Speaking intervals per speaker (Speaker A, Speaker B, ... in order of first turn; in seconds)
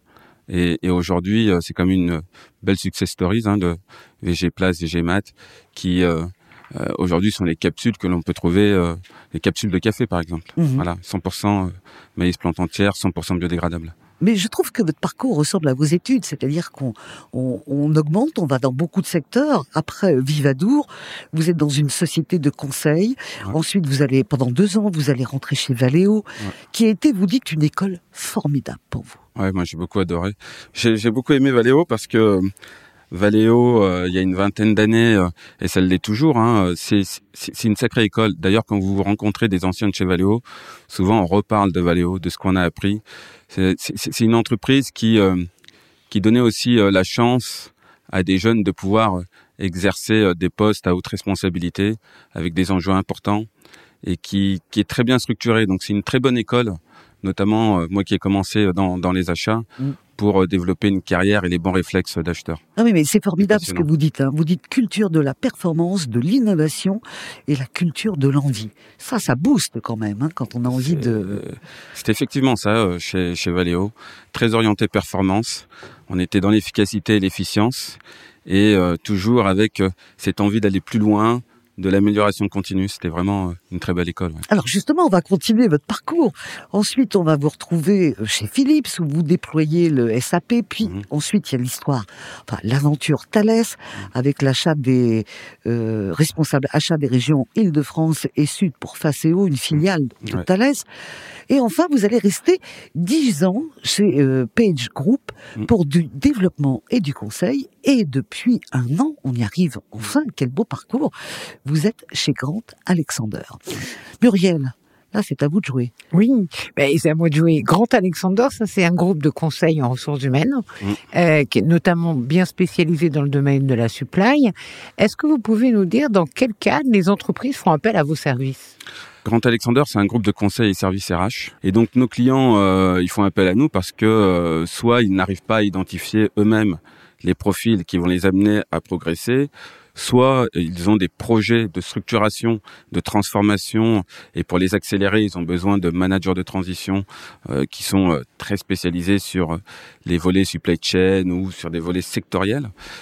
Speaker A: 0.5-13.9, 29.4-32.5, 33.1-45.5, 46.1-53.5, 54.0-62.6, 63.4-63.9, 70.7-84.4, 129.2-152.7
Speaker B: 10.6-10.8, 14.2-29.2, 62.8-71.4, 84.5-100.8, 101.5-111.1, 111.6-115.9
Speaker C: 116.1-128.7